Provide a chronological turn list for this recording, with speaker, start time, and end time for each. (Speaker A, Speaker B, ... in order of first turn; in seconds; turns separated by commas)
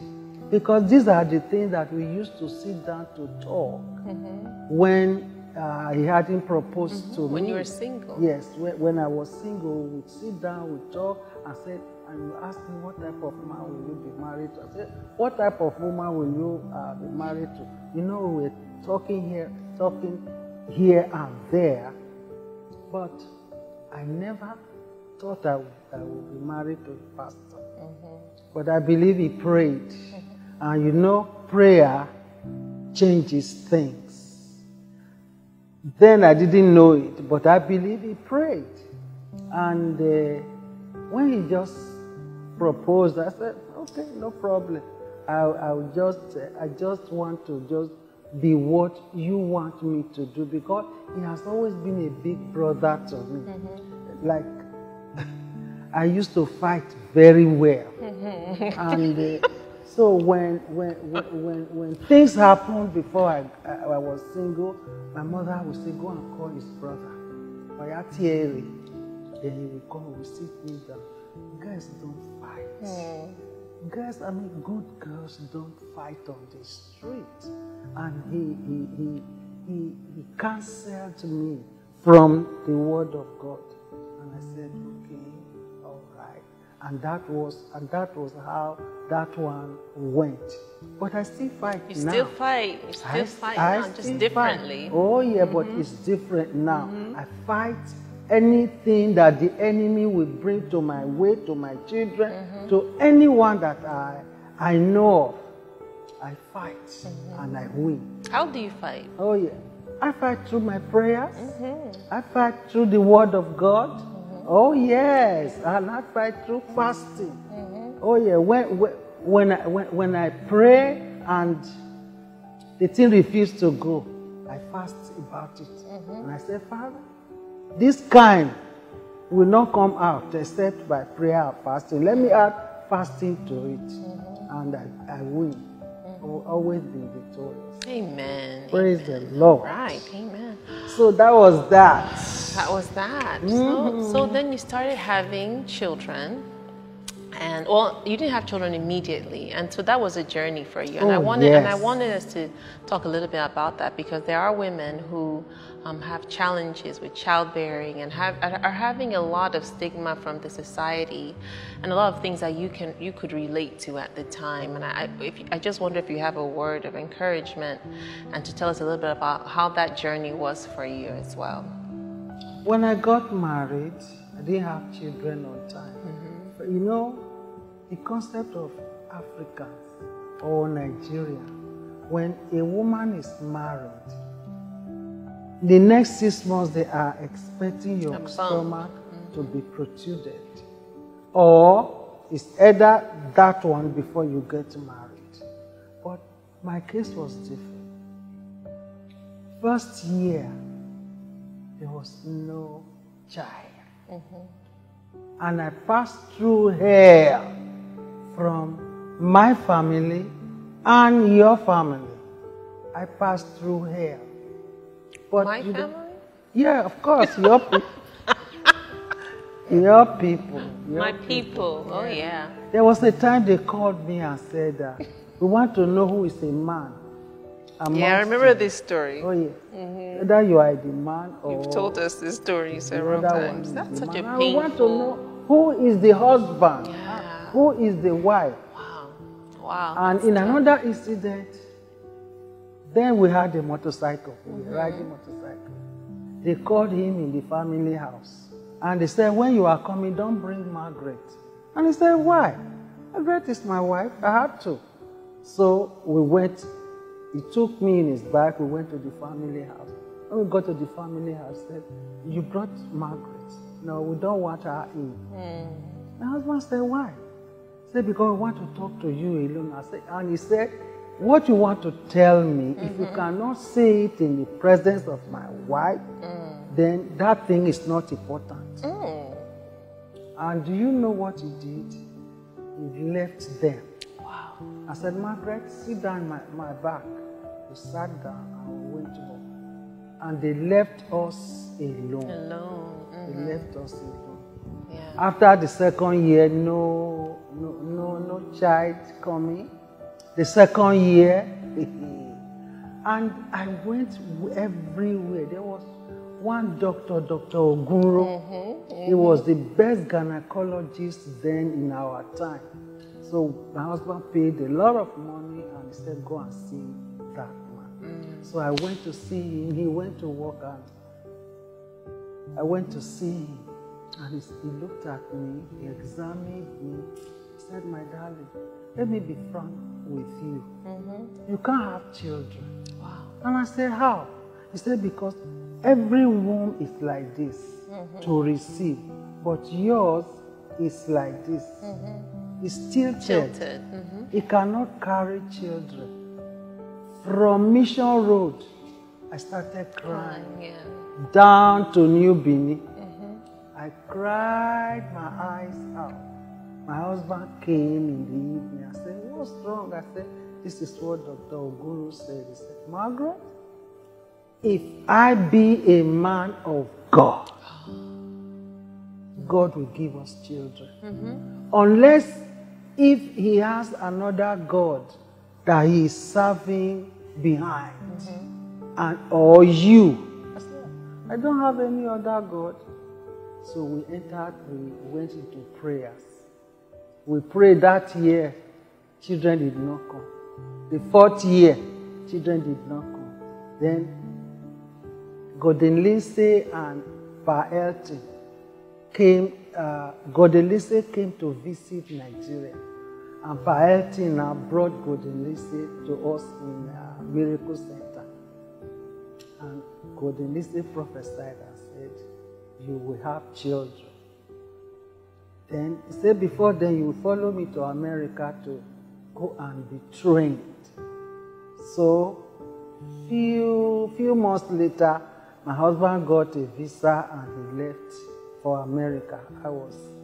Speaker A: 0.5-4.0, Speaker B: 4.0-4.6, Speaker A: 4.7-21.9, Speaker B: 6.9-8.2, Speaker A: 22.9-23.3, Speaker A: 23.9-24.6, Speaker A: 25.2-27.6, Speaker B: 27.8-28.3, Speaker A: 28.5-32.1, Speaker A: 32.9-34.6, Speaker A: 36.0-38.9, Speaker A: 39.5-40.5, Speaker A: 41.1-42.0, Speaker A: 42.6-53.5, Speaker B: 53.5-53.8, Speaker A: 54.2-54.6, Speaker A: 55.9-57.9, Speaker B: 58.0-59.1, Speaker A: 58.8-67.2, Speaker A: 67.8-68.7, Speaker A: 69.4-71.0, Speaker A: 71.6-73.1, Speaker B: 72.8-73.4, Speaker A: 73.8-92.3, Speaker B: 91.9-95.8, Speaker A: 93.0-105.4, Speaker B: 96.8-97.2, Speaker B: 102.3-102.7, Speaker A: 106.2-108.1, Speaker B: 107.1-107.4, Speaker B: 108.3-109.1, Speaker A: 109.2-111.5, Speaker B: 111.4-112.0, Speaker A: 112.1-117.4, Speaker B: 114.1-114.5, Speaker B: 117.5-118.0, Speaker A: 118.0-121.7, Speaker A: 122.8-127.0, Speaker B: 125.9-126.3, Speaker A: 127.8-128.6, Speaker A: 129.3-135.6, Speaker B: 132.1-132.4, Speaker B: 134.0-134.5, Speaker A: 136.2-137.8, Speaker B: 137.8-140.9, Speaker A: 138.7-140.0, Speaker A: 140.9-142.7, Speaker B: 142.3-146.5, Speaker A: 143.4-144.4, Speaker B: 147.3-171.7, Speaker A: 151.0-151.9, Speaker A: 172.6-176.0, Speaker B: 176.0-176.5, Speaker A: 176.6-177.2, Speaker A: 177.9-179.9, Speaker A: 180.4-181.5, Speaker A: 182.1-184.2, Speaker A: 185.6-190.7, Speaker B: 188.1-189.5, Speaker A: 191.3-195.4, Speaker A: 196.0-197.9, Speaker A: 199.6-200.6, Speaker A: 201.8-203.8, Speaker B: 204.1-204.5, Speaker A: 205.4-207.5, Speaker A: 208.3-210.3, Speaker A: 210.8-212.2, Speaker A: 212.9-214.3, Speaker A: 215.3-215.9, Speaker B: 215.4-216.2, Speaker A: 216.5-217.9, Speaker B: 217.2-218.8, Speaker A: 219.7-227.0, Speaker B: 220.9-222.6, Speaker A: 227.8-228.7, Speaker B: 227.9-230.3, Speaker A: 229.2-229.6, Speaker A: 230.1-232.0, Speaker B: 231.5-235.2, Speaker A: 232.9-238.6, Speaker B: 236.8-237.6, Speaker B: 238.7-240.7, Speaker A: 239.9-241.6, Speaker A: 242.9-245.8, Speaker B: 244.5-245.1, Speaker A: 246.4-252.6, Speaker A: 253.1-254.8, Speaker A: 255.4-256.7, Speaker A: 257.3-265.2, Speaker B: 265.3-266.1, Speaker A: 266.2-267.2, Speaker A: 267.9-276.0, Speaker B: 272.8-273.3, Speaker B: 276.2-276.7, Speaker A: 276.7-278.8, Speaker B: 278.8-279.5, Speaker A: 280.4-282.0, Speaker A: 282.8-283.9, Speaker B: 284.2-284.6, Speaker A: 284.9-289.4, Speaker A: 290.2-292.4, Speaker B: 292.3-293.7, Speaker A: 293.3-294.4, Speaker B: 294.9-295.2, Speaker A: 295.2-299.7, Speaker A: 300.4-302.4, Speaker A: 303.1-308.4, Speaker B: 308.2-309.4, Speaker A: 309.1-312.7, Speaker A: 313.2-320.9, Speaker B: 318.0-318.5, Speaker A: 322.6-323.7, Speaker A: 324.2-330.7, Speaker B: 330.9-331.3, Speaker A: 331.5-332.7, Speaker B: 333.0-333.3, Speaker A: 333.4-341.9, Speaker B: 337.9-338.3, Speaker B: 341.8-342.3, Speaker A: 342.6-343.6, Speaker B: 343.2-344.3, Speaker A: 344.3-346.1, Speaker A: 347.2-348.6, Speaker A: 349.3-350.5, Speaker B: 350.1-351.1, Speaker A: 351.2-352.9, Speaker B: 353.0-353.4, Speaker A: 353.7-356.3, Speaker A: 356.9-363.4, Speaker A: 364.6-367.5, Speaker B: 367.7-368.0, Speaker A: 369.4-370.9, Speaker B: 371.0-371.4, Speaker A: 371.7-372.5, Speaker A: 373.0-375.1, Speaker A: 375.6-378.3, Speaker B: 378.1-378.5, Speaker A: 379.0-382.8, Speaker A: 383.6-386.4, Speaker A: 387.3-388.6, Speaker A: 389.2-390.3, Speaker A: 390.9-394.1, Speaker A: 395.6-398.2, Speaker A: 399.1-402.8, Speaker A: 403.4-408.3, Speaker A: 409.6-412.2, Speaker A: 412.8-414.1, Speaker A: 415.7-418.8, Speaker A: 419.4-420.9, Speaker A: 421.8-422.4, Speaker A: 423.2-430.1